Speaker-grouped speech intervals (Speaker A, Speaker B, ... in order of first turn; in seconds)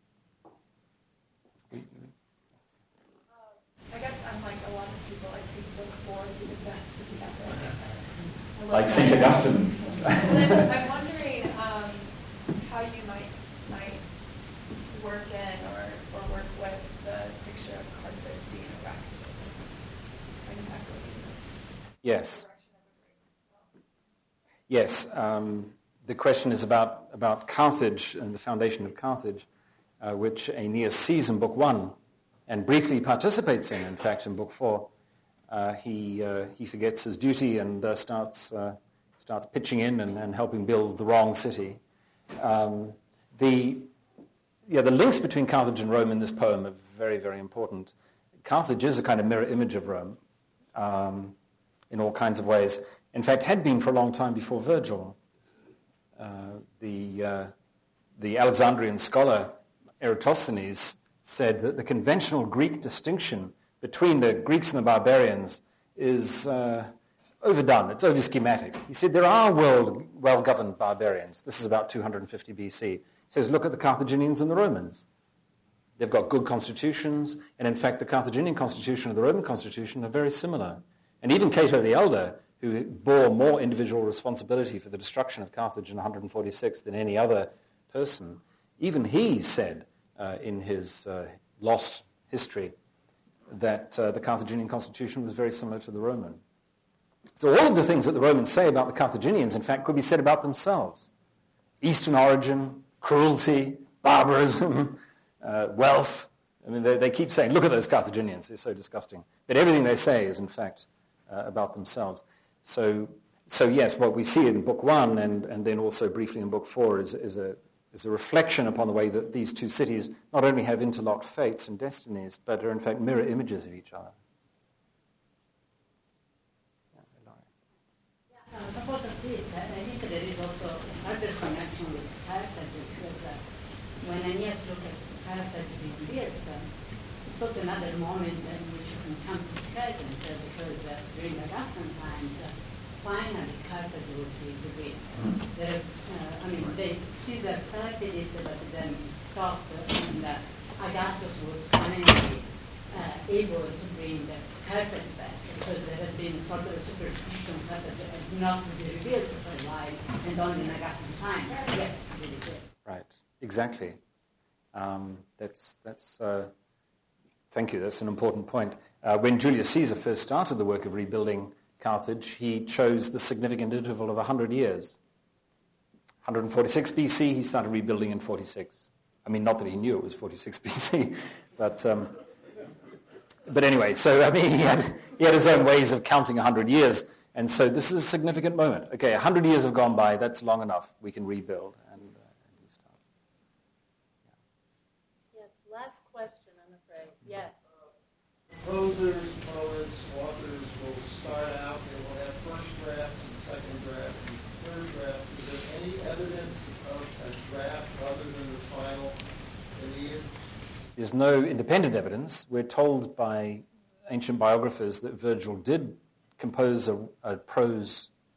Speaker A: 1.7-2.1, 8.7-10.7, 22.0-22.5, 24.7-29.5, 30.0-32.0, 32.5-34.9, 35.5-41.8, 42.4-43.9, 44.7-50.2, 50.8-51.4, 51.9-55.2, 56.2-57.5, 58.2-75.0, 76.0-92.8, 93.5-96.4, 97.4-101.1, 101.8-124.2, 127.0-127.4, 162.8-164.0, 164.7-166.5, 167.5-175.0, 176.2-182.2, 183.5-193.0, 211.0-218.1
Speaker B: 3.3-14.1, 14.9-19.6, 20.4-23.7
Speaker C: 128.3-133.4, 134.0-136.7, 137.2-162.7
Speaker D: 195.3-197.6
Speaker E: 198.6-209.2, 209.8-210.3